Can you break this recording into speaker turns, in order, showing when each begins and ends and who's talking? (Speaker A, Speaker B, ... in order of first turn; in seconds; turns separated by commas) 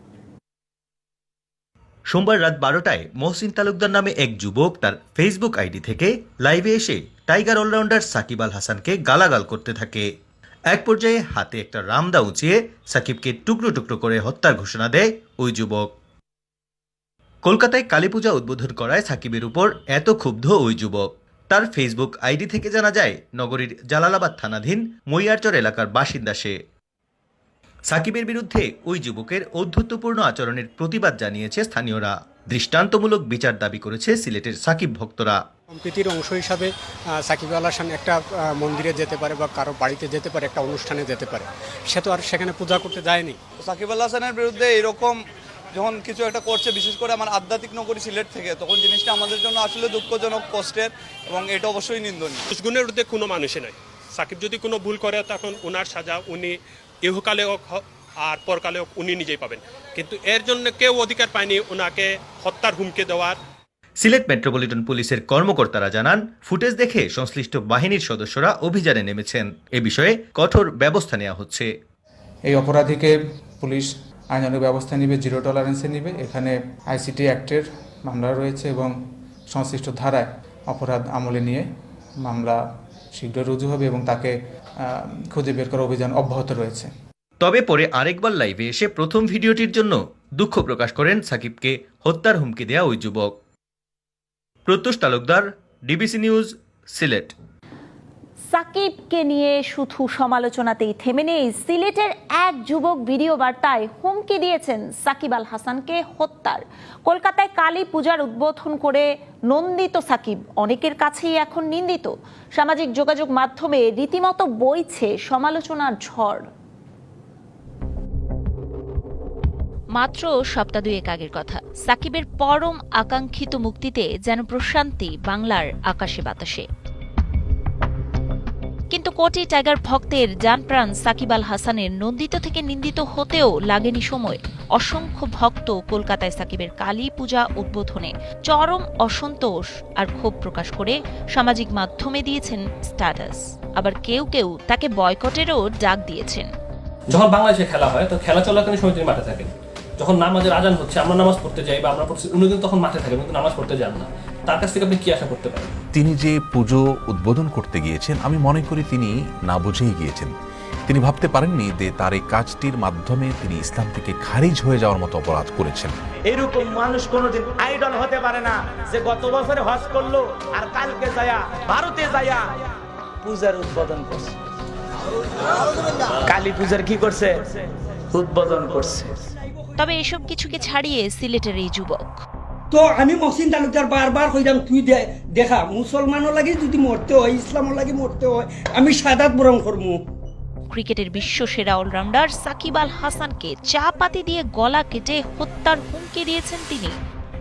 Speaker A: 2.1-10.1, Speaker A: 10.7-15.9, Speaker A: 17.4-26.5, Speaker A: 27.9-35.4, Speaker B: 35.7-36.7, Speaker B: 37.3-41.4, Speaker B: 41.9-43.3, Speaker C: 43.6-45.2, Speaker C: 45.7-52.5, Speaker D: 52.5-63.4, Speaker A: 64.0-71.7, Speaker E: 72.5-78.9, Speaker E: 79.5-81.6, Speaker E: 82.2-82.6, Speaker E: 83.1-84.3, Speaker E: 84.9-86.9, Speaker A: 87.4-93.3, Speaker A: 94.7-97.3, Speaker F: 98.5-116.5, Speaker F: 120.0-121.3, Speaker G: 120.8-124.0, Speaker F: 123.2-126.0, Speaker G: 125.9-126.6, Speaker G: 128.9-146.5, Speaker H: 147.1-155.8, Speaker I: 155.9-160.3, Speaker I: 160.9-166.0, Speaker J: 166.2-172.6, Speaker J: 173.2-174.3, Speaker J: 176.2-179.2, Speaker K: 179.3-180.7, Speaker G: 179.8-182.0, Speaker K: 182.7-190.0, Speaker G: 190.7-196.9